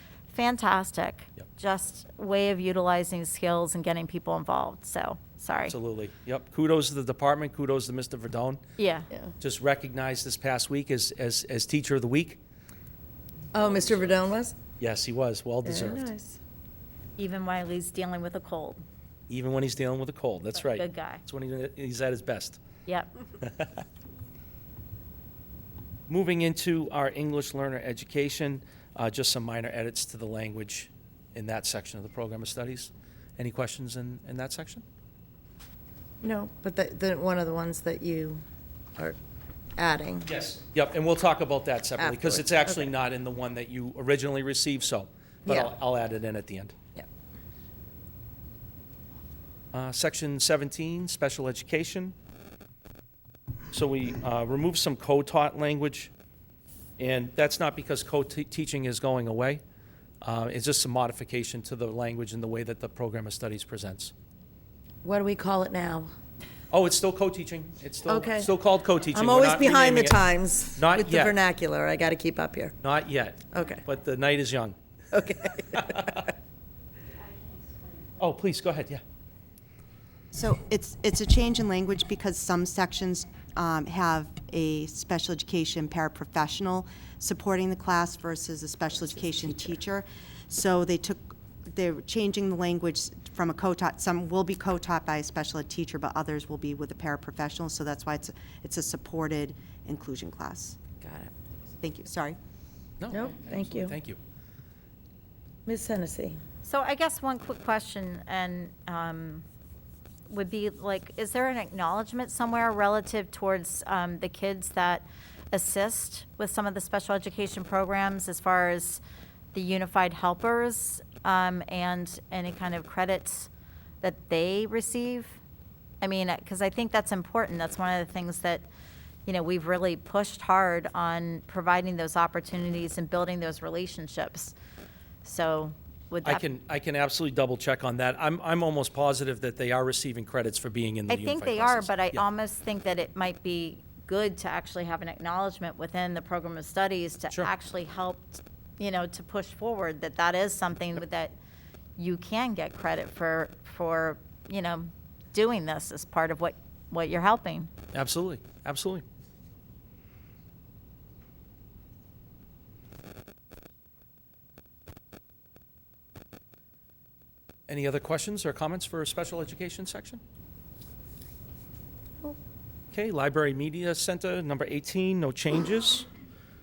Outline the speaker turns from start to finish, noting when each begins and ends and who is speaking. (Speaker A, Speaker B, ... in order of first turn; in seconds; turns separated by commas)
Speaker A: 0.3-5.7, Speaker B: 5.7-8.6, Speaker A: 8.8-9.1, Speaker B: 9.4-12.4, Speaker C: 13.5-14.6, Speaker B: 14.8-16.1, Speaker C: 15.6-16.4, Speaker A: 17.2-18.8, Speaker B: 19.3-22.6, Speaker A: 20.5-21.2, Speaker B: 23.4-23.8, Speaker B: 26.1-34.8, Speaker C: 36.2-38.4, Speaker C: 39.8-40.3, Speaker B: 40.2-46.7, Speaker C: 42.0-42.9, Speaker C: 45.5-45.7, Speaker B: 49.7-52.1, Speaker B: 53.7-56.1, Speaker B: 57.0-59.6, Speaker B: 60.2-64.1, Speaker C: 65.0-66.1, Speaker B: 66.7-70.2, Speaker C: 68.0-68.5, Speaker C: 69.1-72.8, Speaker B: 70.8-71.3, Speaker B: 72.8-74.8, Speaker C: 73.5-73.8, Speaker C: 75.1-76.2, Speaker B: 75.7-76.2, Speaker B: 78.2-79.0, Speaker D: 80.3-100.8, Speaker C: 101.0-101.3, Speaker D: 101.8-102.4, Speaker B: 103.0-104.2, Speaker C: 103.1-104.0, Speaker C: 105.7-106.4, Speaker A: 106.6-109.4, Speaker A: 110.3-119.0, Speaker A: 119.5-123.5, Speaker A: 124.0-125.4, Speaker A: 126.0-128.7, Speaker A: 129.2-134.5, Speaker A: 135.2-136.4, Speaker B: 136.2-142.2, Speaker A: 141.1-151.3, Speaker A: 152.0-157.7, Speaker B: 157.9-159.0, Speaker B: 167.7-170.2, Speaker B: 172.9-176.1